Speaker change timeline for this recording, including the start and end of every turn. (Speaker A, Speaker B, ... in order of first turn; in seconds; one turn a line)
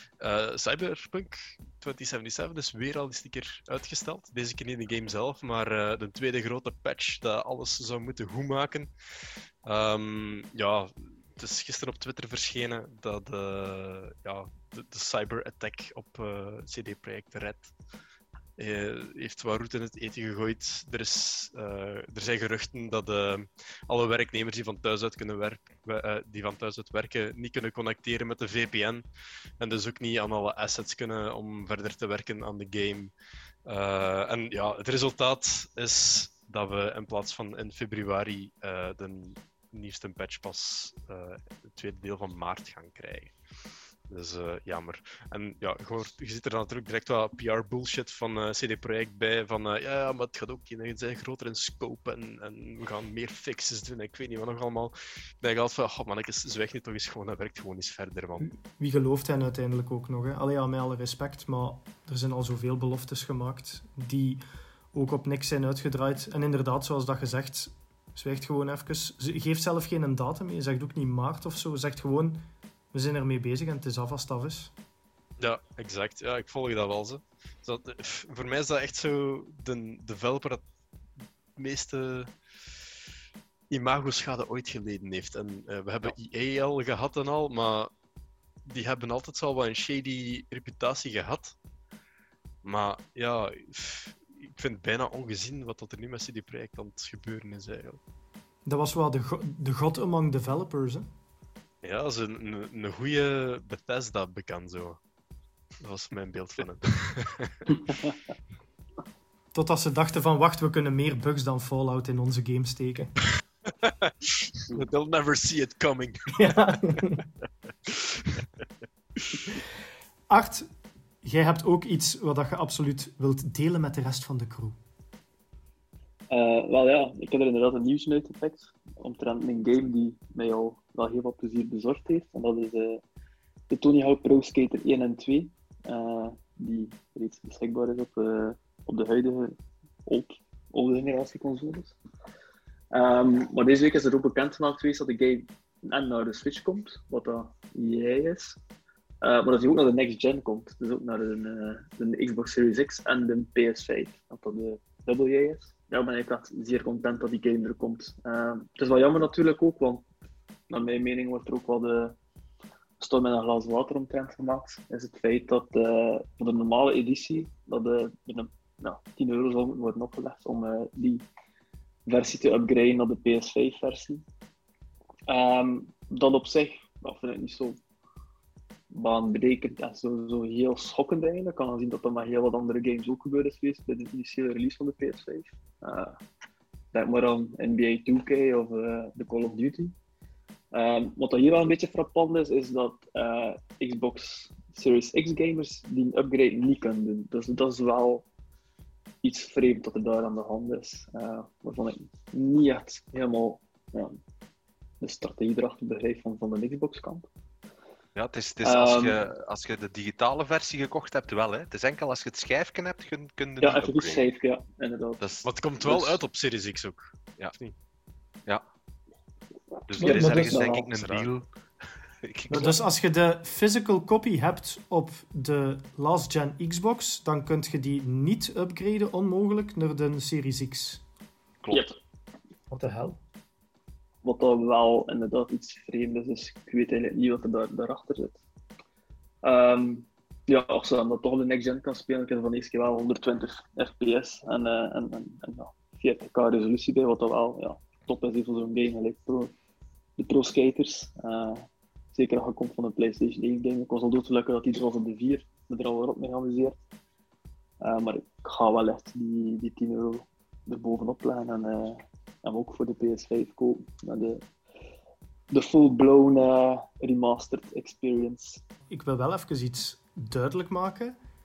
Speaker A: 0.2-8.9
Speaker A: 9.6-17.7
Speaker A: 18.6-29.1
Speaker A: 29.6-33.1
Speaker A: 33.6-43.4
Speaker A: 44.1-58.5
Speaker B: 58.8-64.4
Speaker B: 64.9-74.7
Speaker A: 75.4-80.6
Speaker A: 81.6-82.3
Speaker A: 83.7-87.9
Speaker A: 88.7-91.5
Speaker A: 92.6-98.0
Speaker B: 98.7-101.1
Speaker A: 101.8-105.0
Speaker A: 105.8-107.8
Speaker B: 109.5-113.1
Speaker A: 113.8-116.9
Speaker B: 116.3-117.2
Speaker A: 117.9-118.4
Speaker B: 120.3-120.7
Speaker B: 121.2-124.8
Speaker C: 126.3-133.0
Speaker C: 133.7-141.9
Speaker C: 142.9-148.6
Speaker C: 149.2-160.1
Speaker C: 160.7-162.2
Speaker C: 163.0-171.3
Speaker C: 172.1-174.2
Speaker C: 175.3-177.8
Speaker C: 178.9-186.2
Speaker C: 186.9-189.9
Speaker C: 190.7-198.3
Speaker C: 199.2-204.2
Speaker C: 205.0-207.3
Speaker D: 208.2-214.2
Speaker C: 208.6-209.2
Speaker C: 213.6-216.2
Speaker D: 215.2-215.5
Speaker A: 215.4-217.7
Speaker D: 219.9-221.5
Speaker C: 219.9-220.9
Speaker B: 220.0-220.8
Speaker A: 220.9-221.3
Speaker D: 222.2-222.8
Speaker B: 222.5-231.0
Speaker D: 231.6-231.9
Speaker C: 231.7-232.0
Speaker B: 232.7-233.2
Speaker C: 234.2-238.4
Speaker C: 239.4-249.5
Speaker C: 250.2-256.8
Speaker C: 257.8-264.4
Speaker C: 265.5-268.6
Speaker B: 268.9-271.2